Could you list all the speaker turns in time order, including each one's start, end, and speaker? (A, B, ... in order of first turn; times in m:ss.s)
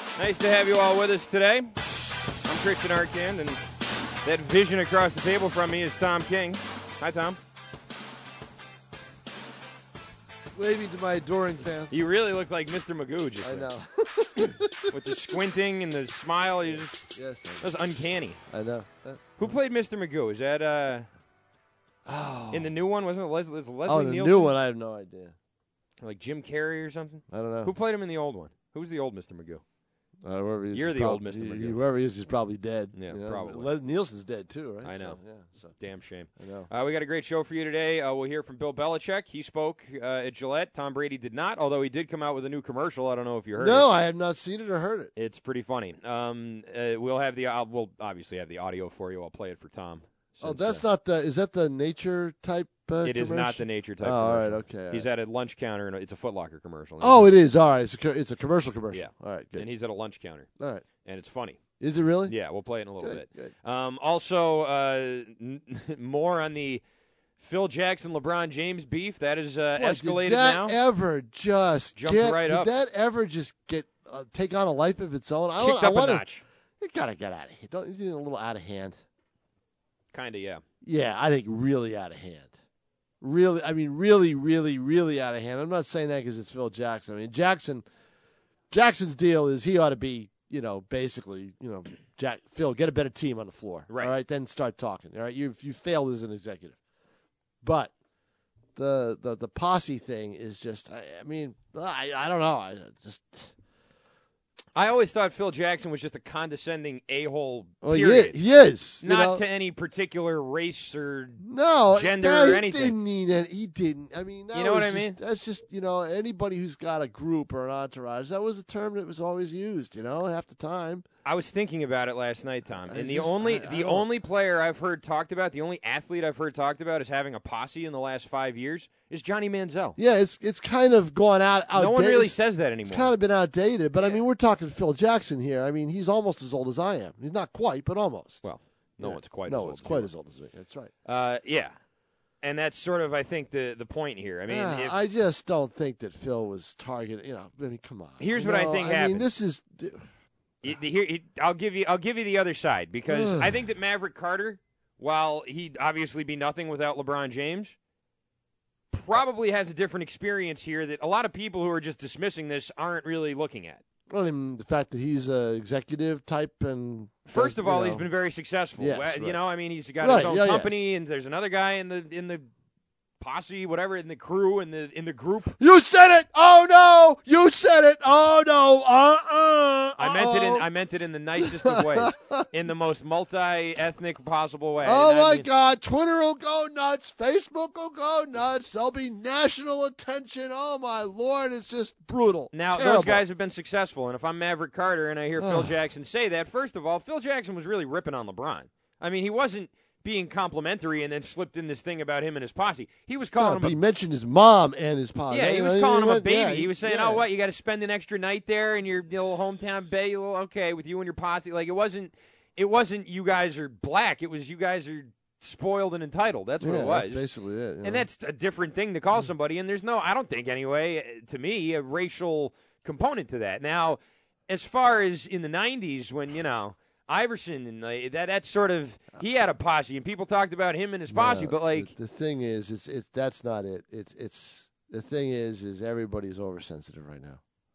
0:00.2-0:01.7 A
0:02.4-0:03.6 A
0:04.2-0:07.4 A
0:10.6-0:12.0 B
0:11.9-0:13.7 A
0:13.4-0:15.4 B
0:14.9-0:17.0 A
0:16.6-0:17.7 B
0:17.6-0:18.4 A
0:18.5-0:19.6 B
0:19.4-0:21.1 A
0:22.0-0:22.7 B
0:22.5-0:24.5 A
0:23.9-0:25.4 B
0:26.0-0:29.6 A
0:27.3-0:27.7 B
0:30.2-0:35.8 B
0:30.7-0:31.8 A
0:32.9-0:33.7 A
0:34.8-0:35.2 A
0:35.8-0:43.9 A
0:36.4-0:36.7 B
0:43.6-0:45.1 B
0:45.2-0:50.8 A
0:50.4-0:55.1 B
0:53.0-0:57.3 A
0:57.0-0:59.7 B
0:58.9-1:00.5 A
1:00.6-1:00.8 B
1:01.0-1:01.6 A
1:01.8-1:02.3 B
1:02.3-1:06.8 A
1:03.0-1:03.5 B
1:07.4-1:10.8 A
1:09.8-1:16.2 B
1:12.0-1:12.7 A
1:15.6-1:16.4 A
1:16.8-1:19.0 B
1:20.1-1:20.6 A
1:20.8-1:22.6 B
1:23.2-1:27.9 B
1:28.7-1:36.8 B
1:37.6-1:37.9 B
1:38.8-1:43.5 B
1:44.8-1:48.4 A
1:47.8-1:49.4 B
1:49.0-1:53.0 A
1:51.4-2:01.0 B
1:54.5-1:55.2 A
2:01.2-2:10.0 A
2:02.8-2:04.1 B
2:10.0-2:12.4 B
2:11.8-2:13.1 A
2:12.9-2:18.4 B
2:14.0-2:14.2 A
2:18.4-2:20.1 A
2:19.0-2:20.9 B
2:21.0-2:21.8 A
2:22.4-2:25.0 A
2:24.5-2:30.1 B
2:28.2-2:29.3 A
2:30.6-2:37.8 A
2:33.1-2:33.6 B
2:38.9-2:43.8 A
2:44.1-2:48.1 B
2:47.3-2:52.5 A
2:48.8-2:49.4 B
2:50.0-2:50.8 B
2:53.2-2:55.5 A
2:55.6-3:00.7 B
3:00.0-3:05.5 A
3:01.4-3:02.5 B
3:04.8-3:13.2 B
3:12.5-3:23.8 A
3:15.4-3:15.7 B
3:23.4-3:27.2 B
3:25.3-3:37.2 A
3:36.6-3:38.1 B
3:37.8-3:51.9 A
3:51.1-3:57.4 B